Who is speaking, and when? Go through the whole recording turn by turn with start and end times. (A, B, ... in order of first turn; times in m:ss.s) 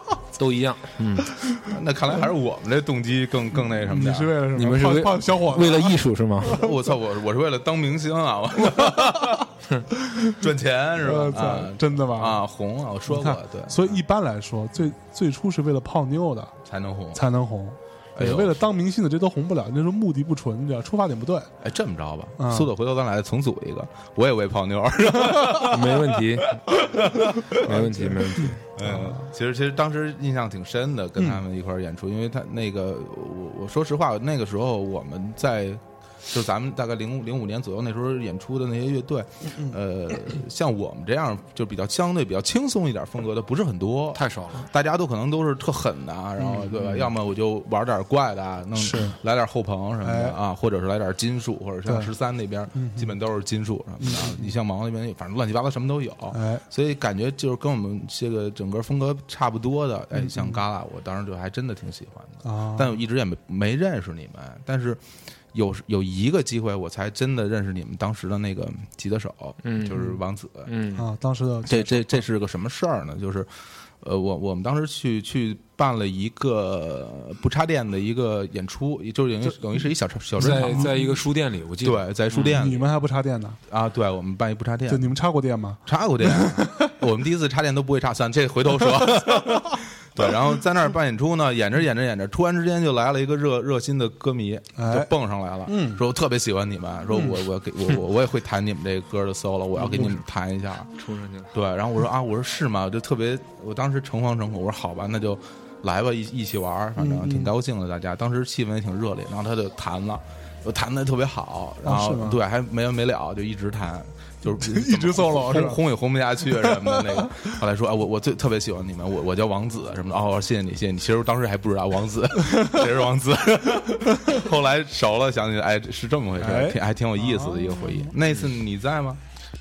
0:00.3-0:01.4 A
0:01.6-0:04.4 B
0:03.8-0:06.8 C
0:04.5-0:06.6 A
0:06.4-0:09.5 B
0:08.7-0:12.4 C
0:10.4-0:14.0 B
0:13.1-0:16.6 C
0:16.6-0:17.2 B
0:17.1-0:21.5 C
0:18.2-0:18.6 B
0:21.6-0:28.0 B
0:22.4-0:22.7 C
0:25.6-0:28.6 A
0:27.6-0:28.2 C
0:28.7-1:05.0 B
0:28.8-0:29.2 C
0:44.1-0:44.7 A
0:46.4-0:46.9 C
0:48.8-0:49.2 C
0:50.0-0:50.4 C
0:51.8-0:52.1 C
0:52.7-0:53.1 C
0:54.0-0:54.5 C
0:56.3-0:56.6 C
1:00.1-1:00.6 C
1:02.4-1:03.0 C
1:05.5-1:10.7 B
1:09.6-1:10.1 A
1:10.6-1:11.1 A
1:11.0-1:12.2 C
1:11.6-1:20.9 B
1:20.4-1:22.6 A
1:20.4-1:21.1 C
1:21.8-1:22.9 B
1:22.4-1:23.6 C
1:23.7-1:25.1 B
1:24.9-1:26.9 C
1:25.9-1:40.9 B
1:29.0-1:29.5 C
1:34.8-1:35.1 C
1:35.6-1:36.0 C
1:39.8-1:40.2 C
1:41.0-1:41.5 A
1:41.5-2:09.2 B
1:47.0-1:47.5 C
1:51.8-1:52.4 C
1:54.4-1:55.8 C
1:56.4-1:57.6 C
2:02.6-2:02.8 C
2:06.4-2:08.1 C